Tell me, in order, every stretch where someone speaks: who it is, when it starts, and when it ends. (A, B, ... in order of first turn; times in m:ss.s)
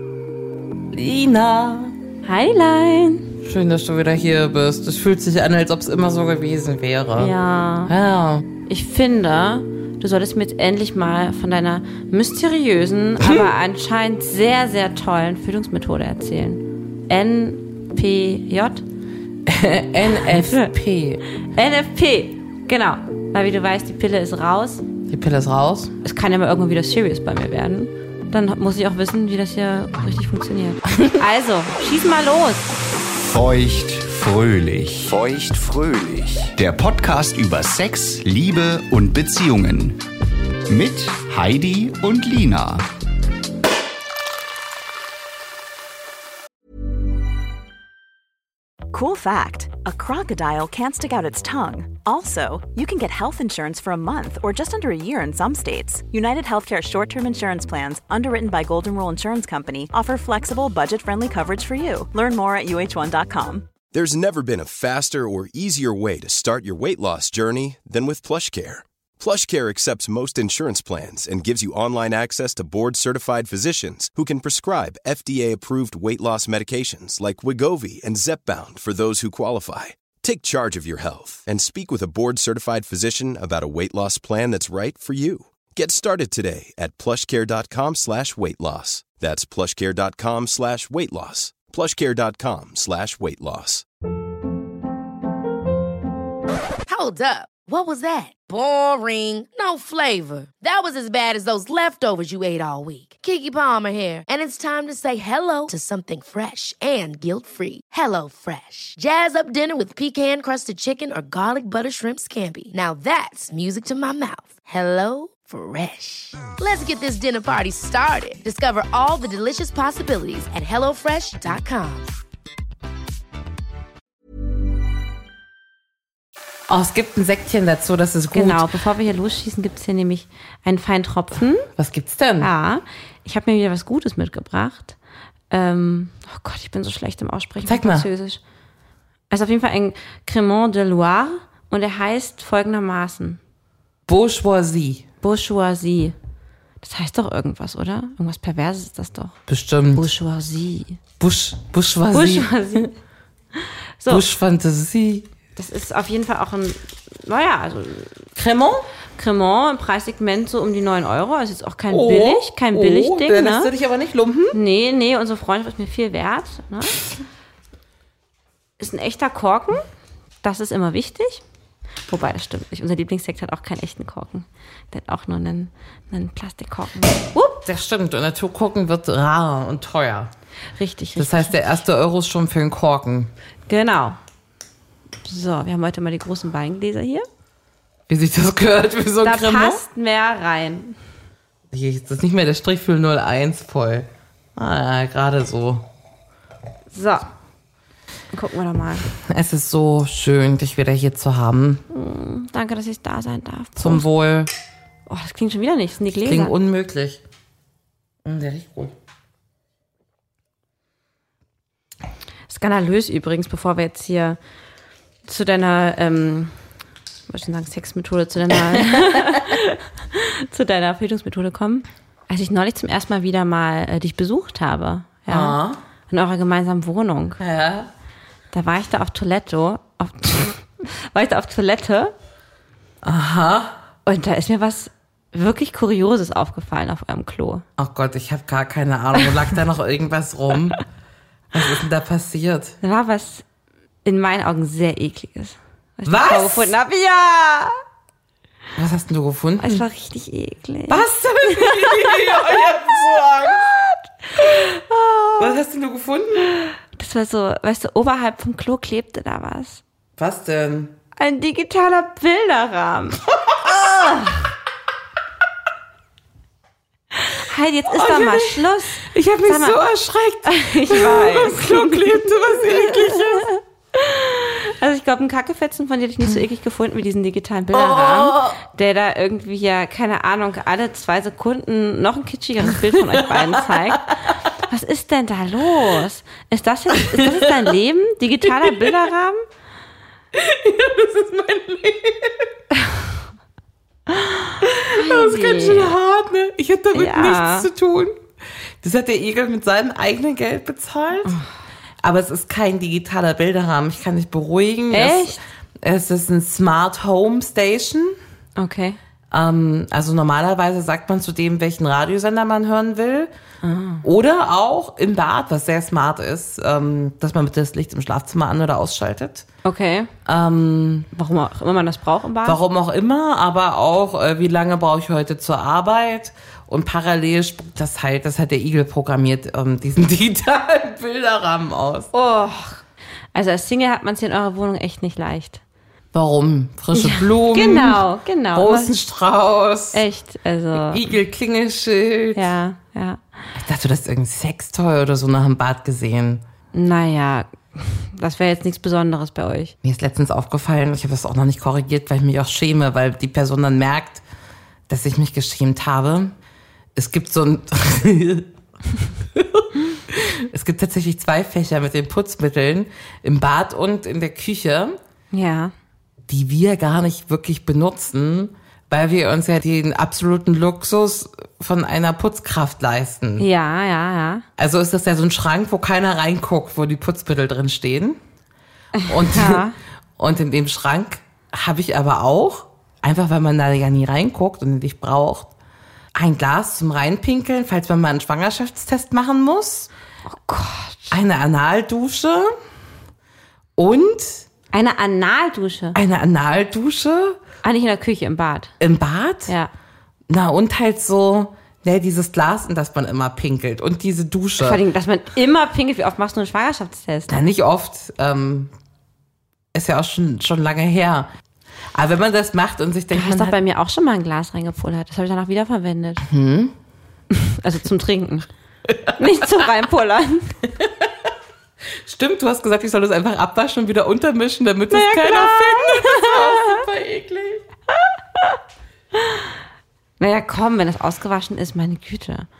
0:00.9-0:02.0 A
0:02.2-0:03.4 B
0:03.4-0:07.3 A
0:07.2-0:07.9 B
0:07.8-0:08.5 A
0:08.7-0:18.8 B
0:13.2-0:13.5 A
0:19.4-0:21.2 A
0:20.2-0:20.7 B
0:21.4-0:24.8 B
0:25.1-0:25.9 A
0:26.0-0:32.7 B
0:33.2-0:40.0 C
0:40.7-0:42.8 C
0:48.9-1:03.7 D
1:03.9-1:33.8 E
1:36.9-2:02.1 F
2:06.7-2:08.6 A
2:08.3-2:11.7 B
2:11.7-2:12.5 A
2:12.4-2:15.0 B
2:15.5-2:18.4 B
2:17.6-2:18.1 A
2:19.3-2:23.4 B
2:24.1-2:25.0 A
2:25.2-2:26.1 B
2:26.8-2:29.4 B
2:29.5-2:30.1 A
2:29.9-2:31.0 B
2:31.2-2:32.9 A
2:32.1-2:32.9 B
2:33.6-2:34.2 B
2:34.1-2:35.3 A
2:35.6-2:38.2 B
2:38.4-2:38.9 A
2:39.2-2:43.7 B
2:41.9-2:44.6 A
2:44.5-2:47.0 B
2:48.8-2:49.8 B
2:50.4-2:51.4 B
2:52.1-2:57.6 B
2:57.6-3:00.3 A
3:00.8-3:01.6 B
3:01.2-3:03.3 A
3:03.7-3:04.2 B
3:05.2-3:07.2 B
3:08.1-3:09.8 A
3:09.2-3:11.0 B
3:11.7-3:15.8 A
3:16.9-3:17.3 B
3:18.3-3:19.1 B
3:19.1-3:21.8 A
3:21.9-3:24.0 B
3:23.8-3:24.5 A
3:25.1-3:26.5 B
3:26.1-3:27.2 A
3:28.2-3:28.9 A
3:32.5-3:34.4 B
3:35.2-3:36.6 B
3:37.3-3:45.6 B
3:45.3-3:45.8 A
3:46.1-3:47.4 B
3:47.4-3:47.9 A
3:48.5-3:52.1 B
3:53.0-3:53.8 A
3:54.0-3:57.6 B
3:57.8-4:00.8 A
4:01.5-4:02.8 A
4:02.8-4:03.4 B
4:04.0-4:07.8 B
4:06.0-4:06.7 A
4:08.8-4:09.8 A
4:09.6-4:12.9 B
4:10.9-4:13.8 A
4:13.4-4:15.5 B
4:15.4-4:16.5 A
4:16.8-4:19.8 B
4:20.2-4:20.9 A
4:21.2-4:23.2 B
4:23.4-4:24.2 A
4:23.9-4:24.4 B
4:27.1-4:29.8 B
4:27.9-4:33.5 A
4:30.4-4:49.4 B
4:37.7-4:38.6 A
4:42.9-4:43.8 A
4:46.9-4:47.5 A
4:48.4-4:49.0 A
4:50.3-4:52.5 A
4:54.1-4:56.0 B
4:54.6-4:58.2 A
4:56.9-4:57.7 B
4:58.8-5:01.4 A
5:02.0-5:08.2 A
5:04.9-5:05.4 B
5:08.6-5:09.0 B
5:09.3-5:13.3 A
5:13.6-5:14.0 B
5:14.0-5:19.5 A
5:19.6-5:20.1 B
5:20.2-5:21.1 A
5:21.1-5:22.6 B
5:22.4-5:32.1 A
5:32.1-5:32.8 B
5:33.3-5:35.6 B
5:36.1-5:40.0 A
5:36.9-5:38.9 B
5:39.9-5:41.1 B
5:40.7-5:42.5 A
5:42.3-5:43.2 B
5:43.5-5:46.4 A
5:46.7-5:49.7 B
5:49.8-5:54.2 A
5:54.9-5:56.3 A
5:56.9-5:58.5 A
5:59.3-6:05.0 A
6:05.3-6:05.7 B
6:06.3-6:13.5 A
6:13.4-6:14.4 B
6:14.6-6:18.2 A
6:19.0-6:19.7 B
6:19.1-6:25.5 A
6:26.1-6:29.9 A
6:30.3-6:31.1 B
6:31.1-6:32.5 A
6:33.8-6:34.5 A
6:34.7-6:36.0 B
6:35.9-6:37.4 A
6:37.6-6:38.7 B
6:38.8-6:39.5 A
6:40.3-6:44.8 A
6:44.6-6:47.4 B
6:47.3-6:48.7 A
6:49.7-6:51.3 A
6:51.9-6:53.6 A
6:53.1-6:56.2 B
6:56.2-6:56.7 A
6:57.3-6:58.5 B
6:58.9-6:59.6 A
6:59.2-7:00.6 B
7:00.8-7:01.1 A
7:02.0-7:07.6 A
7:04.9-7:06.8 B
7:09.2-7:09.4 B
7:10.2-7:12.5 B